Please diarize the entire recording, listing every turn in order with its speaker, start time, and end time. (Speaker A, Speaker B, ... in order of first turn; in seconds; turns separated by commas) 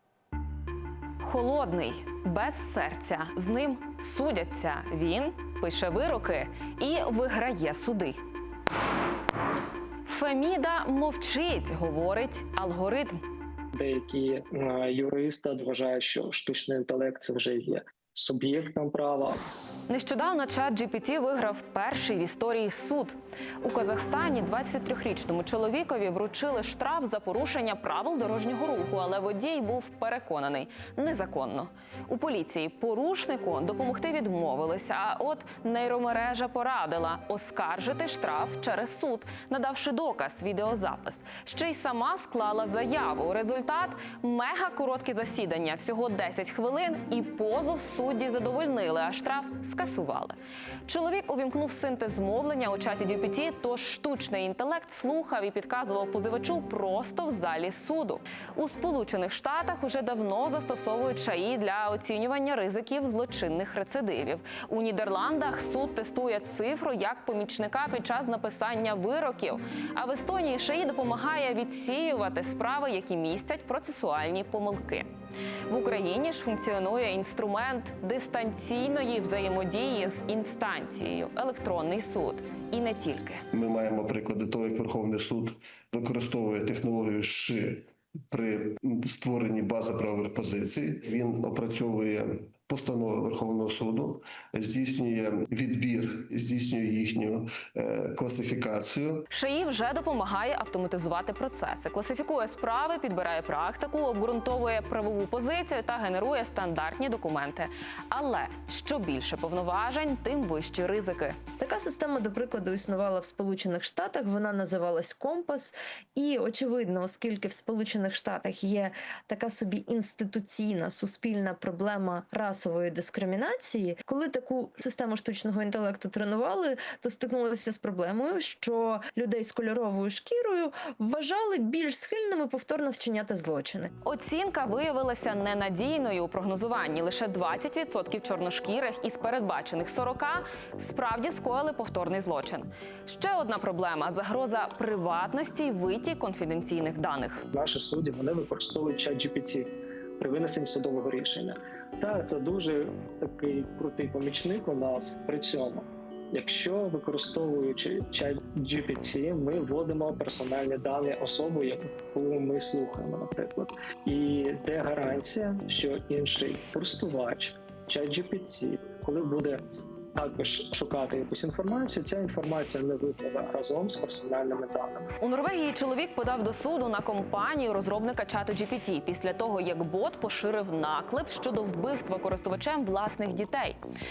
Speaker A: 1.2-8.2, Speaker A: 10.1-13.2, Speaker B: 13.7-19.4, Speaker A: 19.9-75.1, Speaker A: 75.7-83.4, Speaker C: 83.5-99.2, Speaker A: 99.3-111.4, Speaker D: 111.6-133.9, Speaker A: 134.0-147.4, Speaker B: 147.5-169.6, Speaker B: 170.1-175.1, Speaker A: 175.2-183.8